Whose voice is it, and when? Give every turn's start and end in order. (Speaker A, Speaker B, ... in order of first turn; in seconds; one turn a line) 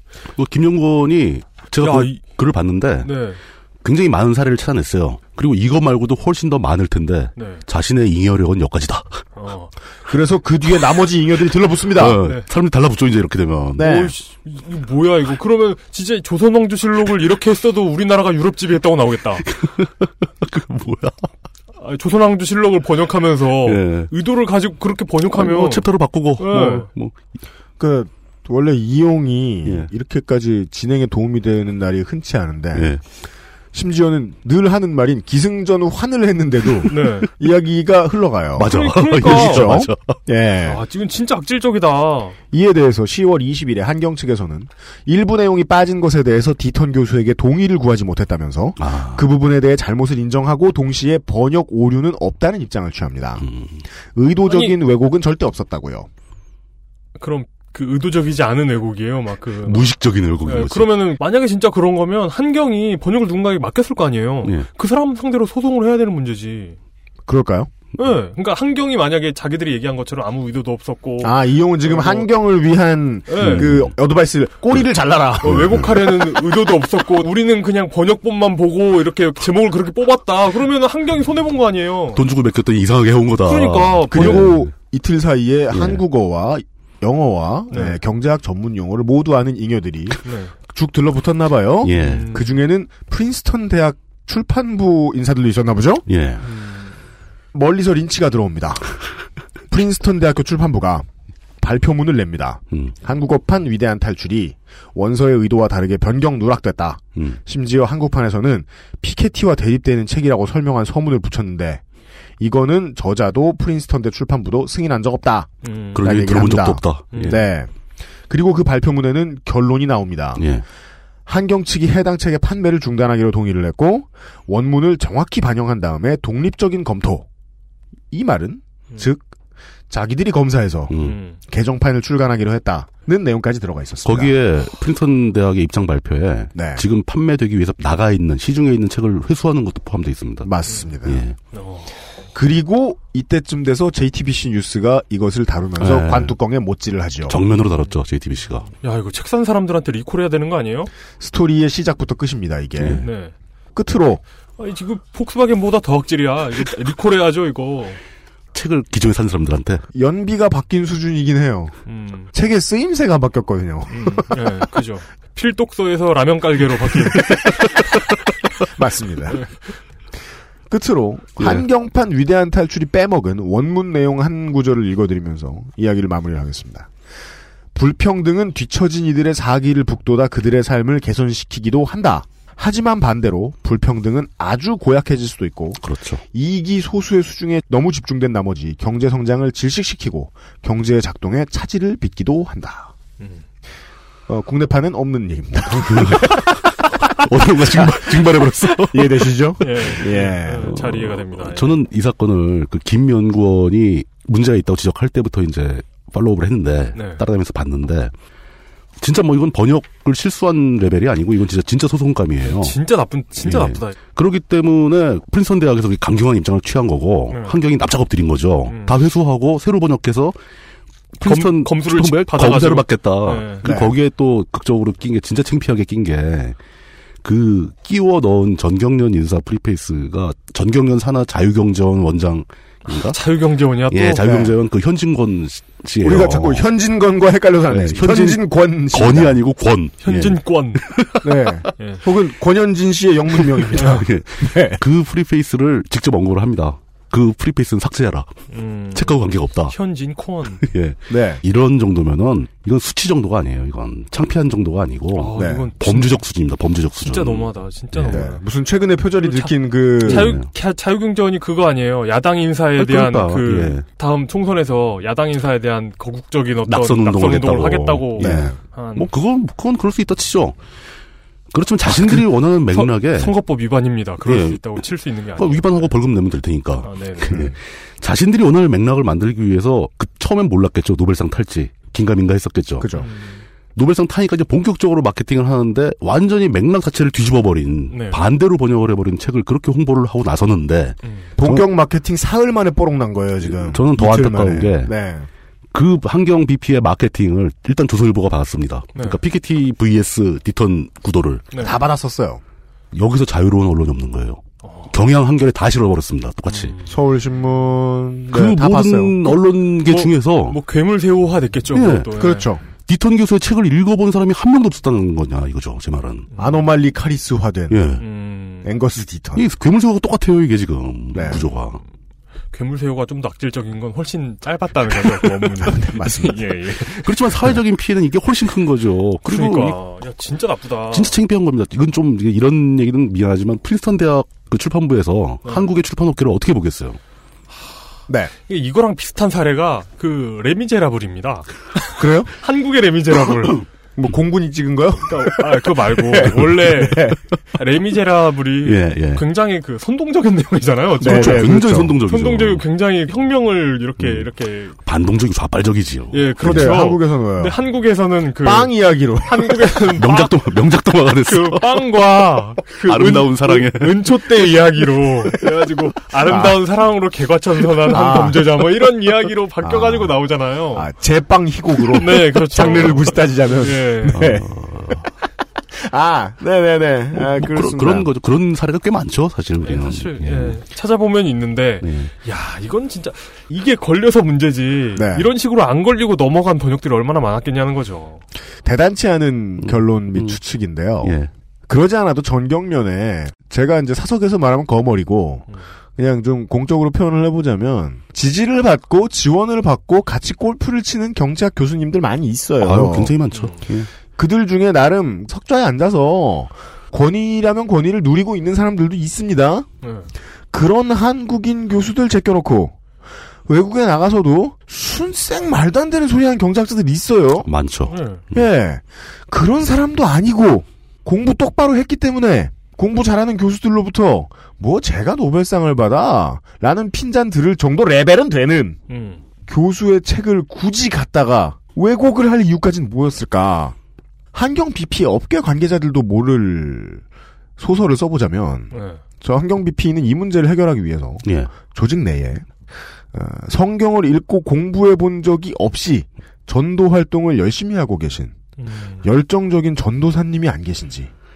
Speaker A: 0.3-3.1
Speaker B: 1.8-2.2
Speaker B: 3.0-3.4
Speaker A: 3.8-9.2
Speaker B: 7.3-7.6
Speaker B: 9.3-9.7
Speaker C: 10.1-12.2
Speaker A: 11.9-13.9
Speaker C: 13.8-14.1
Speaker B: 13.8-19.4
Speaker A: 19.4-21.2
Speaker B: 21.8-25.8
Speaker A: 23.6-24.1
Speaker A: 25.3-27.1
Speaker B: 26.4-26.9
Speaker C: 27.8-32.9
Speaker A: 32.7-33.0
Speaker C: 33.7-40.8
Speaker B: 36.9-37.3
Speaker A: 38.6-40.1
Speaker B: 38.6-39.7
Speaker B: 40.6-42.4
Speaker C: 42.5-53.5
Speaker A: 48.8-49.3
Speaker A: 53.4-53.8
Speaker C: 54.1-56.1
Speaker B: 54.5-54.8
Speaker B: 57.2-66.8
Speaker A: 59.6-61.0
Speaker C: 67.3-67.7
Speaker B: 68.0-72.3
Speaker C: 71.2-76.0
Speaker B: 73.3-73.7
Speaker A: 73.4-73.9
Speaker B: 75.4-82.2
Speaker A: 75.4-75.9
Speaker A: 82.1-84.7
Speaker B: 83.5-84.6
Speaker C: 84.1-90.2
Speaker A: 85.7-86.0
Speaker B: 87.7-88.0
Speaker B: 90.2-90.5
Speaker C: 90.7-96.0
Speaker A: 91.8-92.3
Speaker B: 92.0-92.6
Speaker A: 96.1-96.4
Speaker B: 96.4-96.9
Speaker C: 97.5-98.8
Speaker C: 99.7-101.0
Speaker C: 101.6-111.8
Speaker C: 112.4-117.7
Speaker B: 115.6-116.0
Speaker A: 115.9-117.4
Speaker B: 117.1-117.4
Speaker C: 118.3-120.4
Speaker A: 120.4-120.6
Speaker C: 121.2-127.2
Speaker C: 128.1-129.2
Speaker C: 129.9-134.3
Speaker A: 130.9-131.2
Speaker B: 131.0-131.4
Speaker A: 134.0-140.5
Speaker C: 136.5-136.8
Speaker C: 140.4-141.2
Speaker A: 141.0-141.3
Speaker B: 141.5-141.9
Speaker C: 142.3-147.4
Speaker A: 145.8-146.3
Speaker A: 147.3-148.7
Speaker B: 148.8-150.9
Speaker C: 151.2-153.0
Speaker A: 152.8-153.0
Speaker B: 153.0-153.3
Speaker C: 153.7-154.2
Speaker B: 154.6-158.0
Speaker A: 158.5-159.8
Speaker C: 159.9-161.8
Speaker B: 161.8-162.3
Speaker C: 162.3-164.2
Speaker B: 163.9-167.5
Speaker C: 168.8-169.4
Speaker C: 170.7-176.9
Speaker A: 171.4-171.6
Speaker C: 177.7-185.8
Speaker A: 185.8-186.2
Speaker C: 186.3-192.9
Speaker C: 194.3-196.6
Speaker A: 195.8-199.3
Speaker C: 197.7-198.2
Speaker C: 198.9-200.7
Speaker B: 199.6-201.8
Speaker A: 200.6-208.1
Speaker B: 206.9-207.2
Speaker A: 209.0-212.8
Speaker B: 212.4-214.0
Speaker A: 213.4-220.3
Speaker B: 217.3-217.6
Speaker B: 218.7-218.9
Speaker A: 221.2-226.6
Speaker B: 221.2-223.6
Speaker C: 223.6-223.9
Speaker A: 227.2-233.2
Speaker B: 232.9-234.3
Speaker A: 233.9-236.7
Speaker C: 234.2-234.5
Speaker C: 236.0-239.4
Speaker A: 237.7-241.6
Speaker B: 240.0-240.8
Speaker C: 241.2-244.8
Speaker B: 241.8-242.0
Speaker A: 243.5-248.3
Speaker B: 248.5-250.6
Speaker A: 248.9-249.7
Speaker A: 250.6-258.2
Speaker C: 251.1-251.4
Speaker B: 255.2-256.2
Speaker C: 255.3-255.7
Speaker B: 257.0-258.4
Speaker C: 258.1-260.3
Speaker B: 259.2-269.1
Speaker A: 260.0-260.5
Speaker A: 262.8-263.8
Speaker A: 266.7-270.6
Speaker C: 268.2-268.6
Speaker A: 271.5-273.4
Speaker B: 271.9-275.9
Speaker A: 274.2-274.9
Speaker A: 275.4-282.9
Speaker B: 276.8-277.5
Speaker C: 282.8-283.1
Speaker B: 282.9-283.4
Speaker A: 283.7-291.6
Speaker B: 287.9-288.2
Speaker B: 291.0-291.3
Speaker C: 291.4-295.3
Speaker A: 293.4-294.9
Speaker A: 295.7-301.5
Speaker C: 301.6-302.4
Speaker A: 302.9-304.4
Speaker B: 304.6-304.9
Speaker A: 304.9-306.7
Speaker B: 306.5-306.9
Speaker C: 306.9-309.2
Speaker A: 308.3-310.6
Speaker B: 309.9-312.5
Speaker A: 311.7-312.1
Speaker C: 312.1-312.6
Speaker A: 312.8-316.3
Speaker B: 316.3-316.6
Speaker C: 316.4-317.9
Speaker A: 317.7-318.0
Speaker B: 318.0-318.7
Speaker C: 318.6-319.4
Speaker A: 319.3-321.8
Speaker C: 321.1-321.5
Speaker B: 322.5-327.1
Speaker C: 325.6-326.5
Speaker A: 327.0-329.8
Speaker B: 329.2-331.1
Speaker A: 330.9-337.0
Speaker B: 335.4-335.7
Speaker B: 338.5-343.6
Speaker C: 342.0-342.3
Speaker C: 343.9-347.2
Speaker B: 345.1-354.8
Speaker A: 348.6-349.2
Speaker C: 351.0-351.9
Speaker A: 351.0-352.6
Speaker A: 354.0-356.8
Speaker B: 356.1-360.3
Speaker C: 356.4-357.6
Speaker C: 358.4-359.8
Speaker A: 360.0-361.8
Speaker B: 361.3-370.9
Speaker A: 362.8-364.2
Speaker C: 366.2-366.6
Speaker C: 367.9-368.5
Speaker C: 369.6-370.1
Speaker C: 370.7-374.5
Speaker B: 371.9-374.3
Speaker A: 374.1-375.1
Speaker C: 375.7-378.1
Speaker A: 377.1-380.6
Speaker B: 379.6-388.2
Speaker A: 381.8-382.1
Speaker C: 384.9-385.3
Speaker C: 388.6-391.1
Speaker A: 389.6-390.4
Speaker A: 391.0-391.3
Speaker C: 391.7-403.1
Speaker A: 402.6-403.9
Speaker B: 403.3-403.6
Speaker C: 404.2-409.7
Speaker B: 409.8-410.1
Speaker C: 410.5-412.7
Speaker C: 413.5-417.5
Speaker A: 417.4-418.4
Speaker B: 417.9-418.2
Speaker C: 418.3-428.8
Speaker B: 428.9-429.2
Speaker C: 429.5-433.7
Speaker C: 434.3-437.0
Speaker C: 437.6-442.5
Speaker B: 438.7-439.0
Speaker A: 441.2-441.5
Speaker C: 443.1-448.4
Speaker B: 448.6-449.1
Speaker C: 449.0-451.1